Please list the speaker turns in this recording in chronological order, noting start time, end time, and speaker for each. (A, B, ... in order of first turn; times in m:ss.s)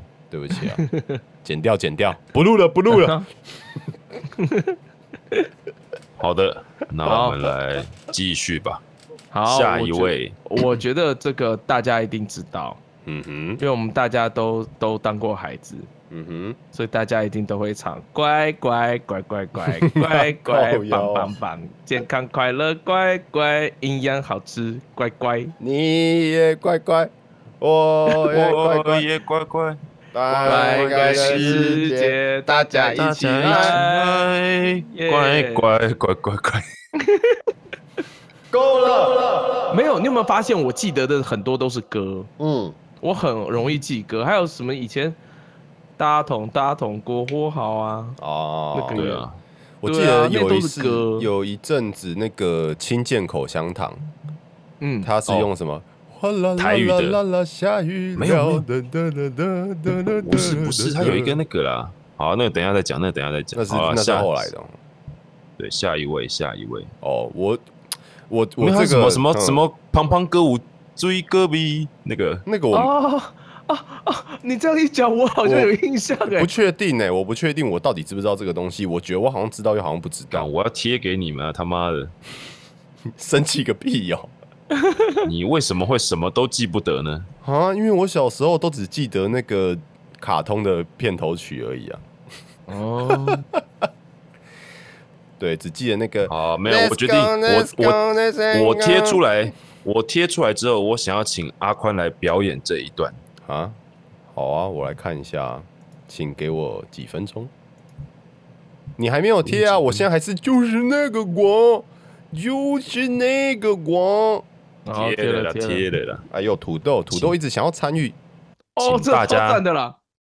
0:00.3-0:00.8 A
0:00.6-0:01.2 B
0:01.4-0:03.2 A
0:02.9-0:03.2 B
0:04.3-0:04.8 B
0:06.2-0:08.8 C
0:07.0-0:07.4 B
0:09.3-0:12.8 B
0:09.5-0:10.4 C
0:13.0-0:13.6 A
0:13.6-0:15.9 B
0:16.1-0:16.6 A
0:16.7-0:25.5 B
0:19.8-0:21.3 A
0:25.6-0:29.1 A
0:28.1-0:29.8 C
0:30.1-0:33.8 A
0:30.3-0:31.8 C
0:30.4-0:34.3 B
0:33.0-0:36.6 C
0:34.9-0:35.6 B
0:37.0-0:37.4 B
0:38.5-0:39.8 A
0:39.7-0:42.3 B
0:42.4-0:42.8 A
0:43.0-0:45.2 B
0:46.0-0:48.2 B
0:48.2-0:49.1 A
0:48.7-0:49.2 B
0:48.9-0:49.4 C
0:49.8-0:54.0 A
0:49.9-0:51.3 B
0:54.8-0:55.1 B
0:55.0-1:01.4 A
0:56.6-0:57.2 C
0:58.2-0:58.6 C
1:00.2-1:04.5 C
1:03.5-1:04.8 A
1:05.6-1:06.9 C
1:07.0-1:07.6 A
1:08.3-1:09.6 A
1:08.6-1:12.4 C
1:12.5-1:12.9 A
1:12.7-1:16.5 B
1:15.4-1:15.7 A
1:16.3-1:20.5 A
1:20.3-1:22.1 C
1:23.2-1:24.3 A
1:24.8-1:25.2 B
1:25.2-1:27.3 C
1:27.4-1:32.0 A
1:32.7-1:33.4 B
1:33.1-1:33.6 A
1:35.4-1:39.2 A
1:36.3-1:38.0 C
1:38.5-1:43.2 C
1:43.4-1:43.8 A
1:44.3-1:47.5 A
1:49.0-1:54.5 A
1:49.4-1:50.0 C
1:54.9-1:55.9 B
1:55.0-1:56.2 C
1:56.3-1:58.2 A
1:58.8-2:00.0 B
1:58.8-1:59.6 C